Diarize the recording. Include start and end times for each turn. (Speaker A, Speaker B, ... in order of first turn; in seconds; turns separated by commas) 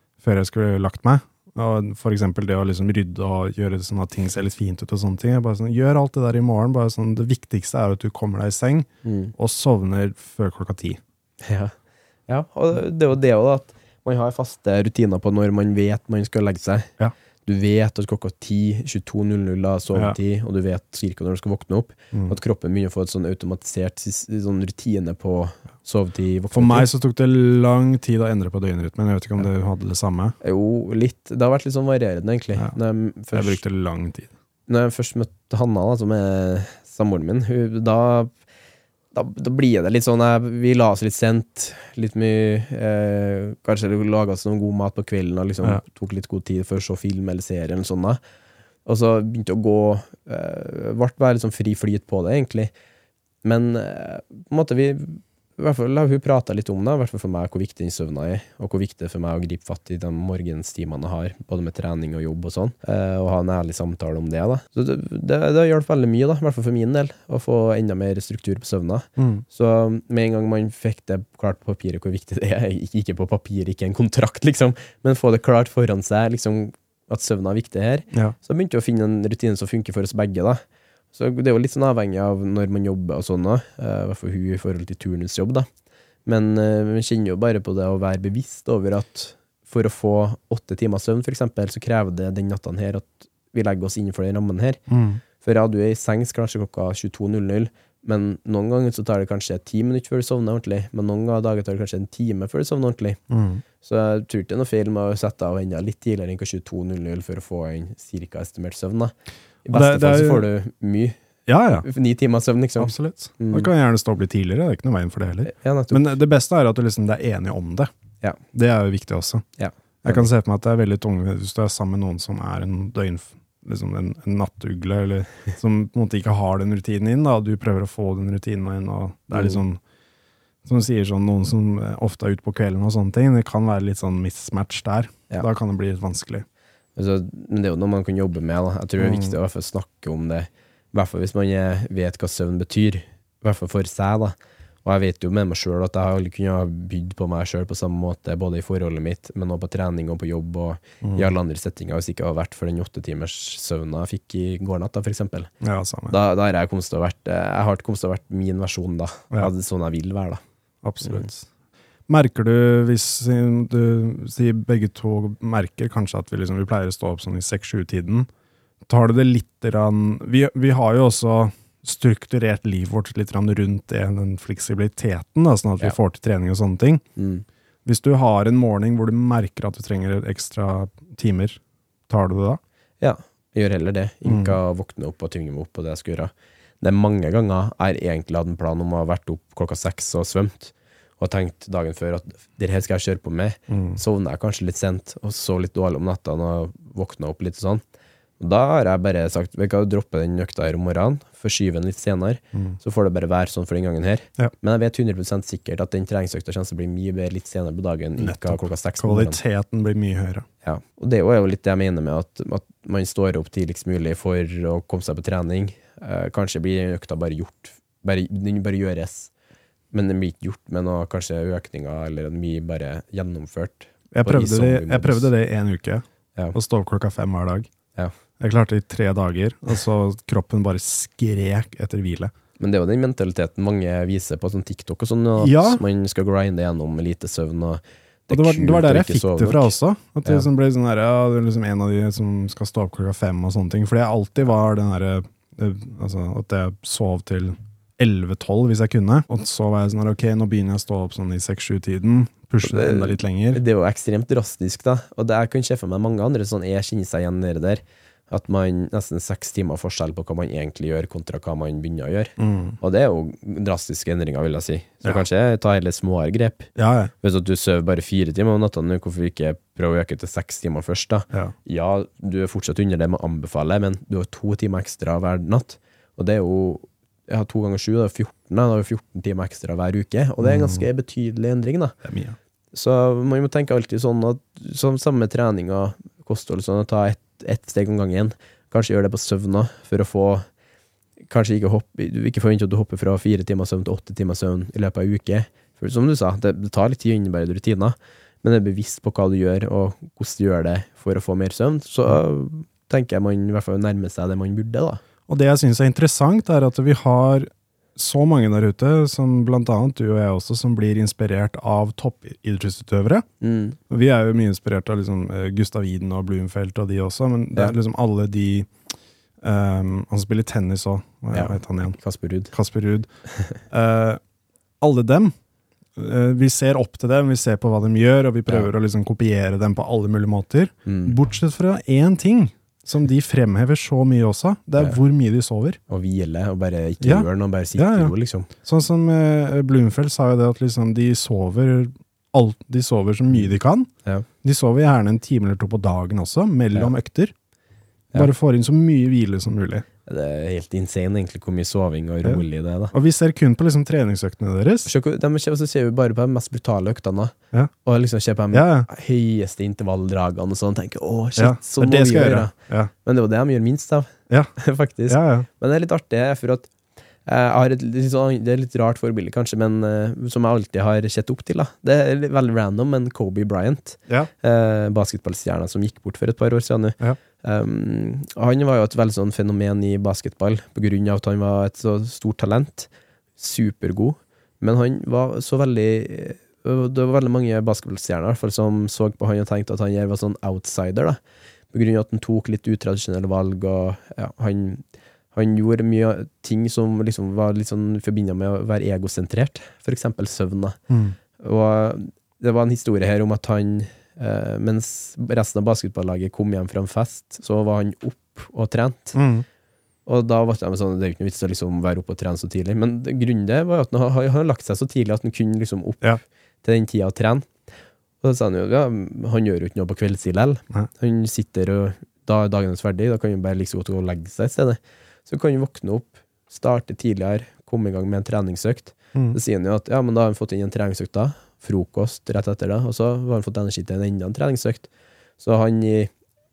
Speaker A: 0.2-11.0, Speaker B: 9.0-9.3, Speaker B: 11.4-11.7, Speaker B: 12.3-16.9, Speaker B: 17.4-26.9, Speaker A: 22.1-22.4, Speaker A: 26.5-30.4, Speaker B: 30.4-33.6, Speaker A: 33.3-34.3, Speaker B: 34.7-38.3, Speaker B: 39.1-48.2, Speaker B: 48.9-52.7, Speaker B: 53.4-80.6, Speaker A: 69.2-69.5, Speaker B: 81.1-85.7, Speaker B: 86.3-94.8, Speaker A: 94.9-95.2, Speaker B: 95.4-103.2, Speaker A: 103.3-103.6, Speaker B: 103.8-109.1, Speaker B: 109.7-111.2, Speaker A: 109.7-110.5, Speaker A: 111.5-111.9, Speaker B: 111.7-113.7, Speaker A: 112.8-117.9, Speaker B: 115.5-116.2, Speaker A: 118.5-119.5, Speaker B: 119.6-120.3, Speaker A: 120.0-129.8, Speaker B: 129.3-129.6, Speaker A: 130.7-136.4, Speaker B: 137.0-155.5, Speaker A: 139.0-139.3, Speaker A: 151.0-151.3, Speaker A: 155.6-156.2, Speaker B: 156.1-160.4, Speaker A: 160.8-161.5, Speaker A: 162.1-168.3, Speaker A: 168.9-177.0, Speaker B: 177.2-177.4, Speaker A: 177.8-182.6, Speaker B: 183.0-197.8, Speaker A: 184.3-184.6, Speaker A: 193.7-194.0, Speaker B: 198.4-209.4, Speaker A: 208.2-210.5, Speaker B: 210.6-219.3, Speaker B: 219.9-225.3, Speaker A: 224.1-227.7, Speaker A: 228.4-232.3, Speaker B: 232.6-239.7, Speaker A: 235.4-235.8, Speaker A: 238.3-253.6, Speaker B: 252.6-266.7, Speaker A: 262.4-262.8, Speaker A: 266.8-267.1, Speaker B: 267.2-281.9, Speaker A: 280.4-280.8, Speaker A: 282.0-282.4, Speaker B: 282.7-290.4, Speaker B: 291.3-305.0, Speaker A: 305.3-313.3, Speaker B: 313.4-313.8, Speaker A: 313.9-318.7, Speaker A: 319.4-322.0, Speaker B: 321.3-322.5, Speaker A: 322.5-324.2, Speaker A: 324.8-325.3, Speaker A: 326.0-335.8, Speaker B: 330.9-331.2, Speaker B: 335.9-338.5, Speaker A: 337.0-343.9, Speaker A: 344.4-347.3, Speaker A: 348.1-349.9, Speaker B: 350.1-352.9, Speaker A: 352.2-354.9, Speaker B: 354.9-357.3, Speaker B: 357.9-366.7, Speaker A: 358.5-358.9, Speaker A: 361.4-362.9, Speaker A: 365.1-365.5, Speaker B: 367.3-391.2, Speaker B: 391.7-394.8, Speaker B: 395.3-400.8, Speaker A: 400.9-401.2, Speaker B: 401.4-409.2, Speaker A: 409.1-409.4, Speaker B: 410.1-417.5, Speaker B: 418.2-434.9, Speaker A: 429.1-429.4, Speaker B: 435.4-436.1